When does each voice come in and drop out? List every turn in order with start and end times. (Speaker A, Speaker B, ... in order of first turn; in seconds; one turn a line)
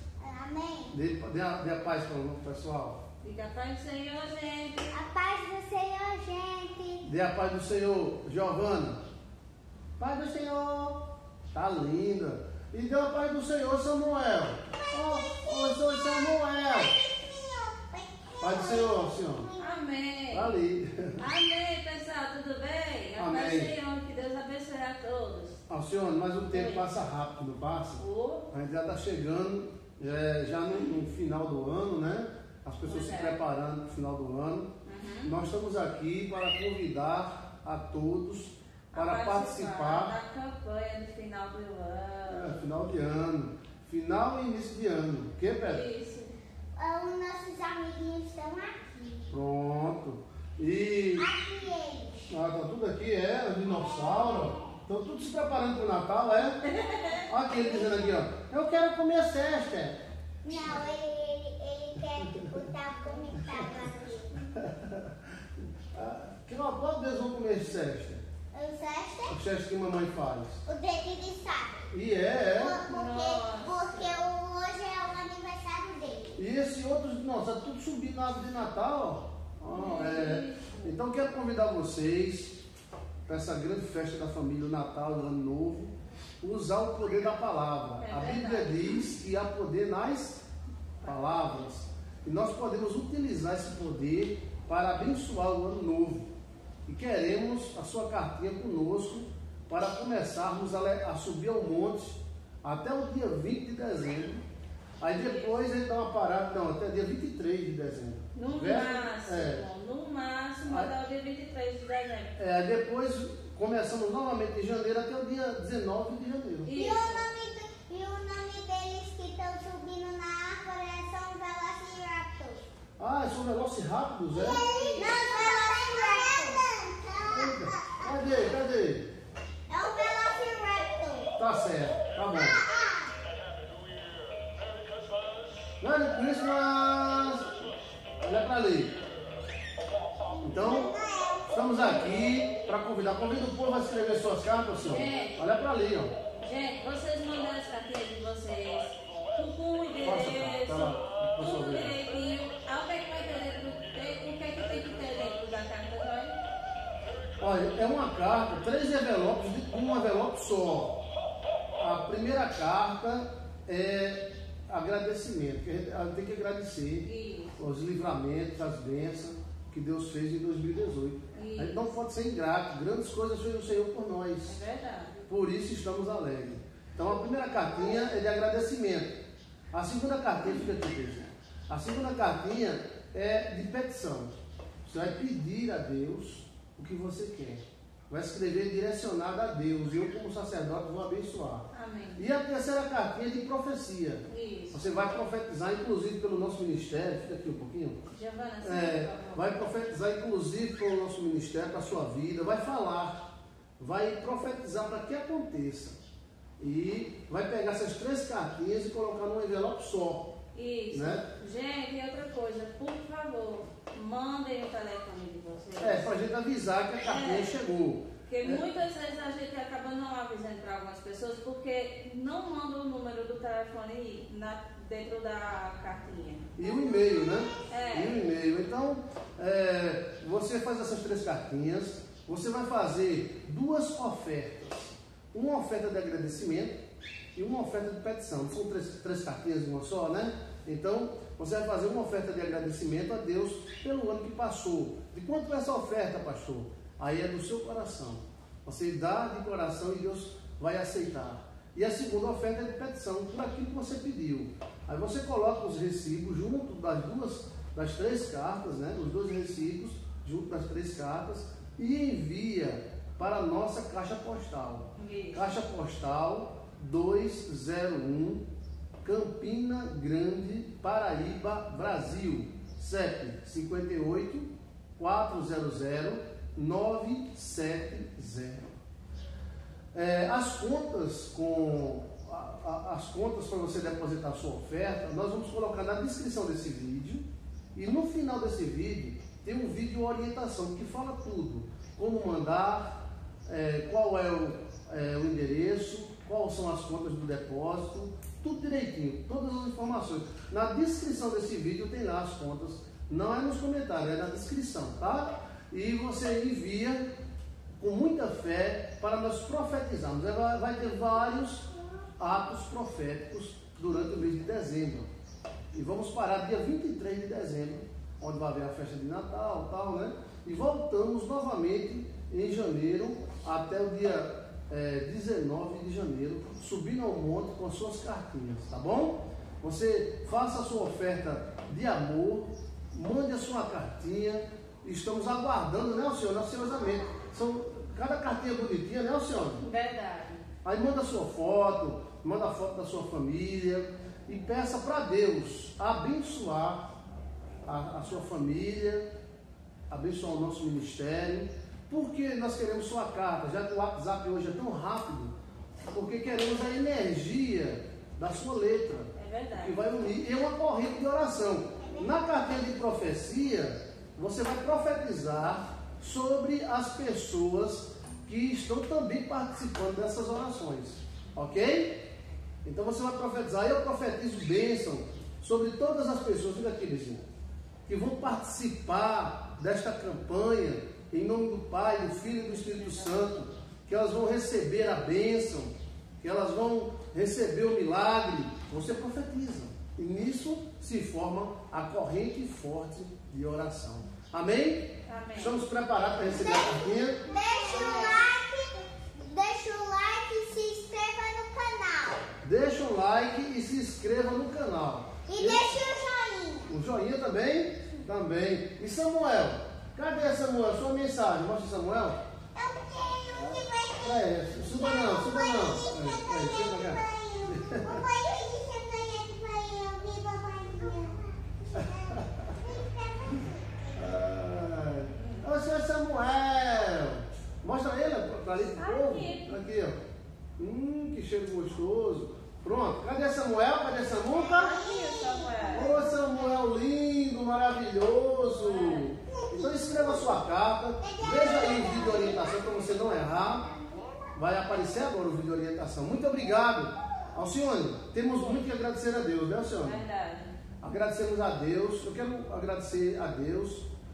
Speaker A: 0.2-0.9
Speaker B: 0.9-3.0
Speaker C: 3.2-5.0
Speaker A: 4.9-7.1
Speaker B: 7.0-9.0
Speaker B: 10.0-16.9
Speaker A: 14.8-19.8
Speaker B: 18.4-19.5
Speaker C: 19.6-20.6
Speaker B: 20.3-21.2
Speaker C: 21.2-25.6
Speaker B: 23.2-23.7
Speaker B: 25.7-34.7
Speaker C: 26.5-26.9
Speaker C: 28.0-28.4
Speaker C: 32.8-33.4
Speaker C: 34.9-35.3
Speaker B: 35.2-40.1
Speaker C: 38.9-42.6
Speaker B: 42.3-45.8
Speaker C: 45.6-46.4
Speaker A: 46.8-49.2
Speaker B: 49.3-51.3
Speaker A: 51.2-52.3
Speaker B: 52.3-56.6
Speaker A: 53.8-54.5
Speaker C: 56.7-57.2
Speaker B: 57.3-60.0
Speaker A: 57.6-58.1
Speaker A: 60.4-64.3
Speaker B: 64.4-65.1
Speaker B: 65.9-68.2
Speaker A: 68.5-69.4
Speaker B: 69.3-70.6
Speaker A: 70.7-71.9
Speaker B: 71.9-72.8
Speaker A: 72.5-76.4
Speaker C: 72.9-74.2
Speaker B: 76.4-82.6
Speaker C: 79.7-81.0
Speaker B: 83.3-90.4
Speaker C: 88.0-89.0
Speaker C: 91.0-91.4
Speaker B: 91.0-96.3
Speaker B: 96.9-104.4
Speaker B: 105.0-109.6
Speaker C: 105.1-105.5
Speaker C: 108.3-112.3
Speaker B: 112.4-116.7
Speaker C: 116.6-117.3
Speaker A: 116.8-122.7
Speaker B: 123.0-124.7
Speaker A: 124.3-128.0
Speaker C: 124.6-125.8
Speaker B: 127.3-129.1
Speaker A: 129.7-131.3
Speaker B: 131.4-132.6
Speaker A: 132.4-133.2
Speaker B: 135.8-137.6
Speaker B: 138.2-139.0
Speaker A: 140.3-141.9
Speaker B: 140.4-140.9
Speaker B: 141.5-146.1
Speaker C: 144.8-145.4
Speaker C: 146.4-156.4
Speaker B: 150.0-152.0
Speaker B: 157.4-161.0
Speaker B: 161.8-174.6
Speaker C: 167.0-167.5
Speaker C: 171.3-171.8
Speaker C: 174.5-175.1
Speaker B: 175.3-179.2
Speaker B: 179.7-184.3
Speaker B: 184.8-198.0
Speaker C: 191.7-192.2
Speaker C: 194.3-194.8
Speaker C: 198.1-199.6
Speaker B: 198.6-206.0
Speaker B: 206.6-210.3
Speaker C: 210.6-216.1
Speaker B: 210.9-211.3
Speaker B: 215.8-218.7
Speaker C: 217.0-217.6
Speaker C: 218.3-226.5
Speaker B: 226.6-236.8
Speaker A: 226.6-228.3
Speaker C: 227.7-228.2
Speaker B: 237.3-268.4
Speaker C: 265.0-265.6
Speaker B: 269.0-278.7
Speaker B: 279.9-307.0
Speaker B: 307.8-311.6
Speaker B: 312.2-315.1
Speaker B: 315.7-339.6
Speaker C: 339.6-340.4
Speaker B: 340.6-346.9
Speaker B: 347.7-349.1
Speaker B: 349.9-355.3
Speaker B: 355.9-372.0
Speaker C: 359.2-359.8
Speaker B: 372.6-377.2
Speaker B: 377.9-397.2
Speaker C: 395.1-395.6
Speaker A: 396.2-402.2
Speaker C: 397.6-398.3
Speaker B: 402.4-405.7
Speaker A: 405.3-406.7
Speaker B: 406.7-412.2
Speaker A: 412.6-423.8
Speaker B: 413.3-418.0
Speaker B: 421.8-422.5
Speaker B: 423.9-430.0
Speaker C: 425.1-425.5
Speaker C: 428.8-429.6
Speaker B: 430.6-434.7
Speaker A: 434.3-436.7
Speaker C: 434.6-435.9
Speaker B: 435.7-443.7
Speaker C: 438.4-439.1
Speaker A: 439.4-440.4
Speaker A: 441.0-444.2
Speaker B: 444.4-450.0
Speaker C: 448.3-448.7
Speaker C: 449.8-450.5
Speaker B: 450.8-453.9